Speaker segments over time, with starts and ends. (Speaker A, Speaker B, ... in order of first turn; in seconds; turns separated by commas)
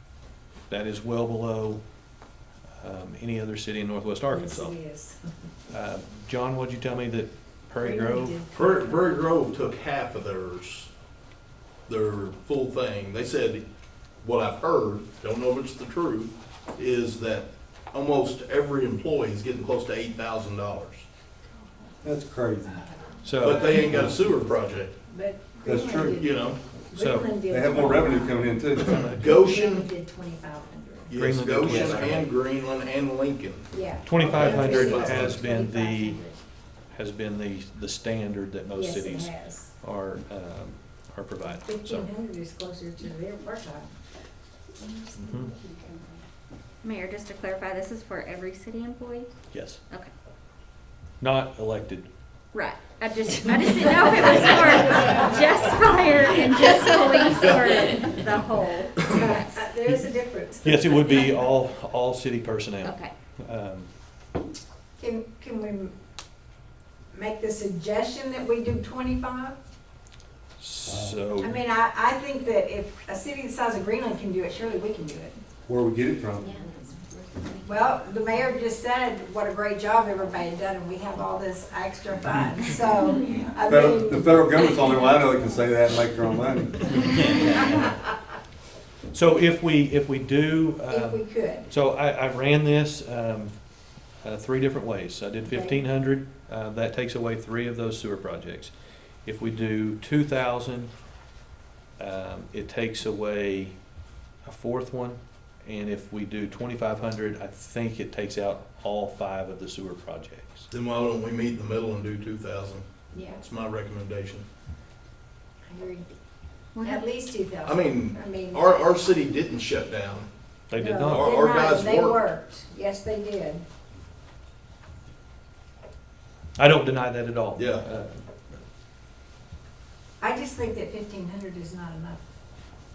Speaker A: 0.7-1.8, Speaker A: 2.8-4.8, Speaker B: 4.3-5.2, Speaker A: 5.7-8.4, Speaker B: 7.8-9.2, Speaker C: 8.5-10.9, Speaker C: 11.9-13.6, Speaker C: 14.2-21.1, Speaker D: 22.0-22.9, Speaker A: 23.2-23.8, Speaker C: 23.4-24.9, Speaker B: 23.7-24.1, Speaker D: 23.8-24.2, Speaker B: 25.1-28.6, Speaker D: 25.6-26.2, Speaker C: 26.1-26.6, Speaker A: 26.9-27.3, Speaker D: 27.5-29.1, Speaker C: 28.8-29.9, Speaker B: 29.1-32.2, Speaker C: 31.1-33.7, Speaker A: 31.1-32.3, Speaker B: 33.7-36.4, Speaker A: 34.0-36.2, Speaker C: 34.2-35.4, Speaker A: 36.9-42.1, Speaker B: 38.7-39.7, Speaker B: 41.6-44.0, Speaker B: 44.8-46.1, Speaker A: 45.2-45.5, Speaker E: 46.8-49.3, Speaker A: 49.5-49.8, Speaker A: 51.2-52.1, Speaker E: 52.5-59.6, Speaker C: 57.5-58.0, Speaker B: 59.1-61.0, Speaker A: 60.6-63.9, Speaker E: 62.8-63.1, Speaker B: 65.0-65.9, Speaker B: 67.1-69.5, Speaker A: 70.6-71.6, Speaker D: 70.9-71.2, Speaker B: 71.4-75.4, Speaker D: 75.7-76.6, Speaker E: 76.4-77.7, Speaker B: 77.6-84.8, Speaker D: 83.7-87.1, Speaker A: 87.0-87.9, Speaker A: 89.1-93.5, Speaker B: 90.9-91.7, Speaker A: 94.2-98.7, Speaker B: 95.5-95.8, Speaker A: 99.3-100.9, Speaker A: 102.0-103.8, Speaker A: 104.5-110.7, Speaker C: 110.7-114.5, Speaker B: 113.1-113.4, Speaker B: 115.7-116.1, Speaker E: 116.8-117.0, Speaker B: 116.8-119.1, Speaker C: 117.6-120.3, Speaker A: 120.7-121.3, Speaker B: 120.8-123.6, Speaker C: 121.1-122.3, Speaker A: 126.6-128.2, Speaker C: 127.6-127.8, Speaker B: 130.2-132.2